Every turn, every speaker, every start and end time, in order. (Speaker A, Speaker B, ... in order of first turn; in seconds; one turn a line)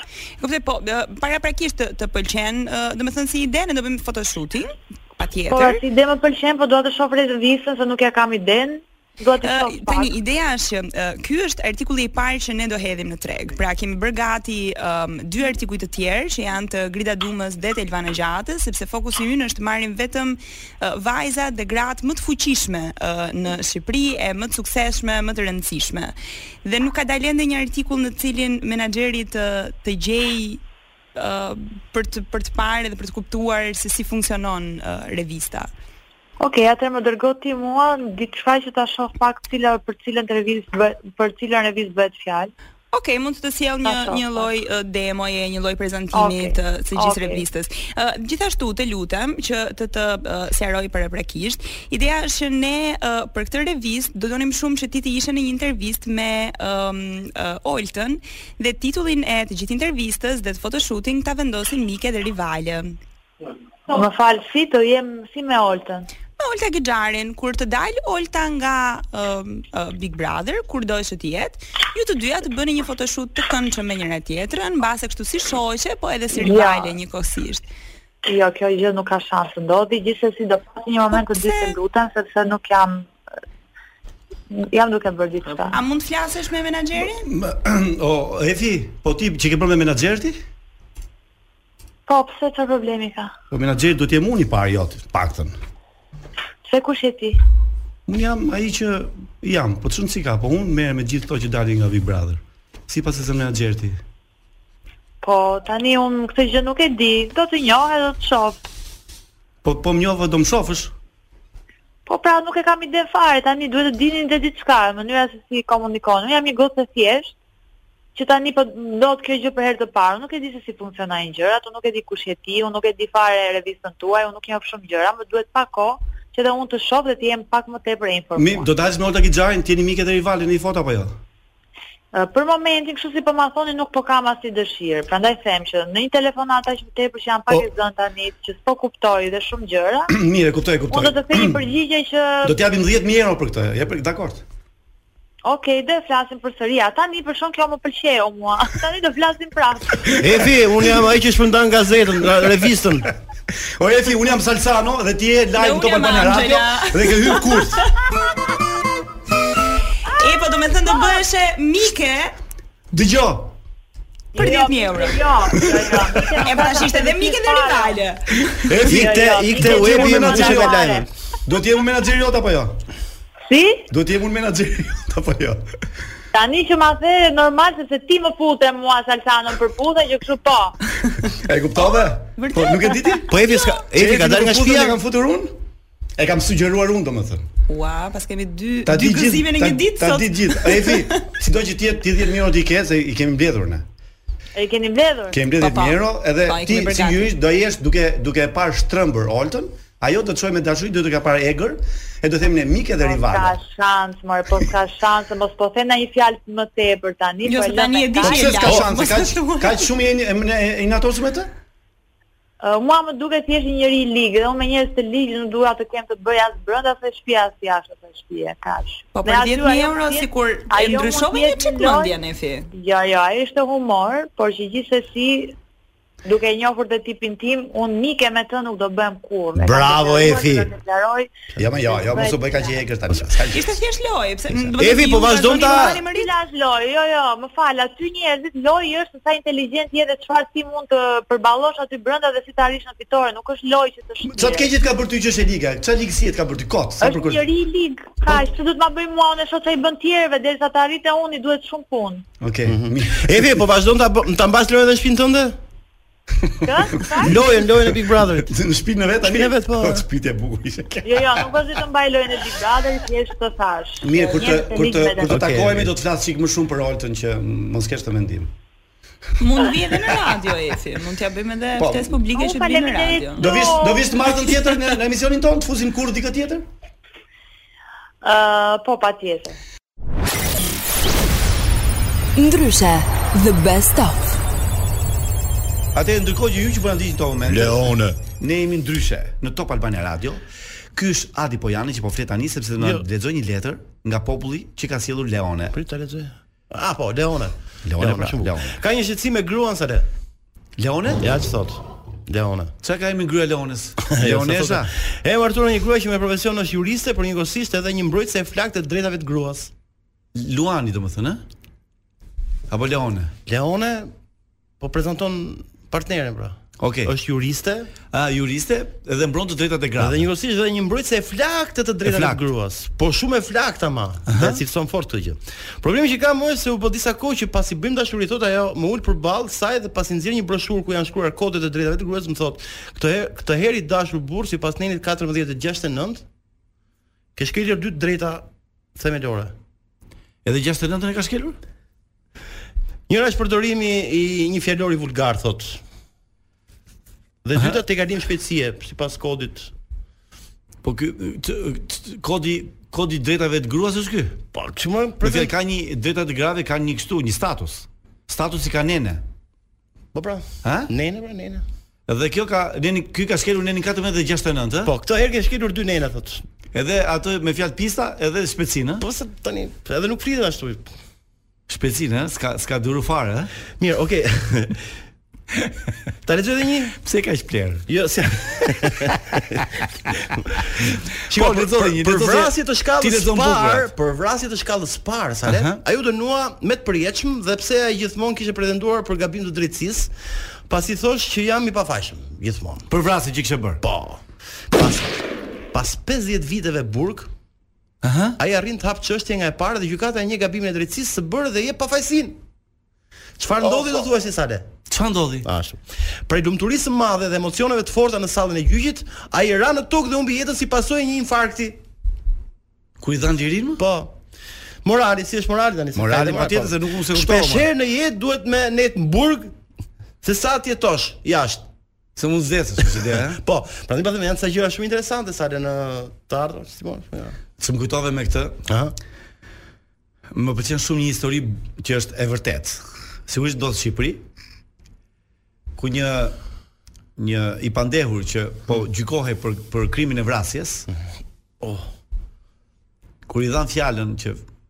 Speaker A: 0.4-5.8
Speaker B: 5.5-10.1
Speaker A: 9.4-30.6
Speaker A: 31.1-35.7
Speaker B: 36.4-42.5
Speaker A: 42.9-63.0
Speaker B: 43.8-44.5
Speaker B: 46.1-47.4
Speaker B: 63.9-66.1
Speaker A: 66.4-77.7
Speaker B: 76.3-77.0
Speaker B: 78.2-83.1
Speaker A: 81.1-81.8
Speaker B: 84.5-85.8
Speaker A: 85.7-87.3
Speaker C: 87.2-90.4
Speaker B: 92.1-93.3
Speaker C: 93.5-95.5
Speaker B: 96.7-97.4
Speaker C: 98.0-104.0
Speaker B: 105.2-108.6
Speaker C: 109.6-110.9
Speaker B: 112.1-117.3
Speaker B: 118.1-128.7
Speaker C: 128.3-131.1
Speaker B: 132.1-140.1
Speaker C: 140.1-141.6
Speaker B: 140.9-142.6
Speaker C: 142.4-144.4
Speaker B: 145.4-150.2
Speaker D: 150.2-153.1
Speaker C: 153.8-157.8
Speaker A: 155.6-157.9
Speaker A: 160.1-162.3
Speaker C: 162.9-163.5
Speaker B: 164.3-168.0
Speaker A: 164.3-165.7
Speaker C: 165.5-166.2
Speaker A: 166.4-168.8
Speaker C: 168.7-172.8
Speaker D: 168.9-171.1
Speaker B: 168.9-171.0
Speaker B: 173.5-173.8
Speaker C: 173.9-175.6
Speaker B: 176.3-180.8
Speaker C: 181.4-183.3
Speaker A: 181.8-183.8
Speaker D: 183.3-185.0
Speaker C: 183.9-185.6
Speaker C: 186.2-187.4
Speaker A: 187.7-191.2
Speaker C: 188.8-193.8
Speaker B: 194.6-195.4
Speaker C: 195.3-203.6
Speaker A: 195.6-197.3
Speaker B: 203.0-208.8
Speaker A: 207.4-209.9
Speaker C: 208.2-211.5
Speaker B: 212.6-222.1
Speaker A: 219.1-222.7
Speaker B: 222.7-225.6
Speaker B: 226.2-231.3
Speaker C: 229.6-230.7
Speaker C: 231.6-233.8
Speaker B: 232.0-232.8
Speaker A: 233.5-236.3
Speaker D: 234.7-236.0
Speaker B: 236.1-244.7
Speaker C: 244.3-247.4
Speaker B: 247.0-252.2
Speaker C: 252.4-253.6
Speaker D: 252.6-255.6
Speaker B: 256.6-257.3
Speaker C: 256.6-261.5
Speaker D: 257.2-258.5
Speaker D: 259.2-260.0
Speaker B: 261.0-265.4
Speaker C: 264.0-268.5
Speaker D: 265.2-265.9
Speaker A: 269.4-273.5
Speaker C: 271.8-272.2
Speaker B: 272.3-274.2
Speaker C: 273.4-276.6
Speaker B: 278.2-279.6
Speaker E: 282.4-284.4
Speaker C: 285.9-295.7
Speaker D: 287.5-288.1
Speaker D: 292.8-293.0
Speaker D: 295.7-300.1
Speaker C: 297.8-298.7
Speaker C: 300.8-301.2
Speaker D: 301.2-302.7
Speaker C: 302.8-304.9
Speaker D: 304.1-309.7
Speaker C: 310.3-311.4
Speaker C: 312.7-313.3
Speaker D: 313.5-314.1
Speaker D: 314.8-317.9
Speaker C: 316.8-317.1
Speaker C: 318.1-320.3
Speaker D: 320.0-336.2
Speaker C: 322.0-322.4
Speaker C: 324.2-324.6
Speaker D: 337.4-339.5
Speaker C: 340.4-341.6
Speaker D: 343.1-345.8
Speaker D: 347.4-349.7
Speaker C: 347.5-347.8
Speaker C: 350.8-354.4
Speaker D: 354.5-355.5
Speaker C: 355.2-359.2
Speaker D: 360.1-361.6
Speaker C: 360.6-360.9
Speaker C: 362.1-364.9
Speaker D: 364.8-366.4
Speaker C: 366.7-369.0
Speaker D: 369.0-370.9
Speaker C: 371.7-373.5
Speaker D: 373.8-374.9
Speaker C: 375.6-375.9
Speaker D: 376.2-377.0
Speaker C: 377.0-377.9
Speaker D: 377.9-379.4
Speaker D: 380.7-390.1
Speaker C: 381.3-383.9
Speaker C: 385.4-385.8
Speaker D: 390.7-392.9
Speaker C: 392.9-393.8
Speaker D: 393.8-397.3
Speaker C: 398.0-398.4
Speaker D: 398.4-402.4
Speaker D: 403.4-404.7
Speaker C: 404.9-405.5
Speaker D: 405.4-411.8
Speaker C: 413.0-413.8
Speaker D: 413.8-414.1
Speaker D: 414.8-419.5
Speaker C: 415.9-417.7
Speaker D: 420.2-421.6
Speaker C: 422.1-423.4
Speaker D: 422.8-427.4
Speaker C: 427.6-428.6
Speaker D: 428.7-428.9
Speaker C: 430.3-434.2
Speaker C: 435.8-436.4
Speaker C: 437.1-440.9
Speaker D: 441.6-441.9
Speaker C: 443.2-444.4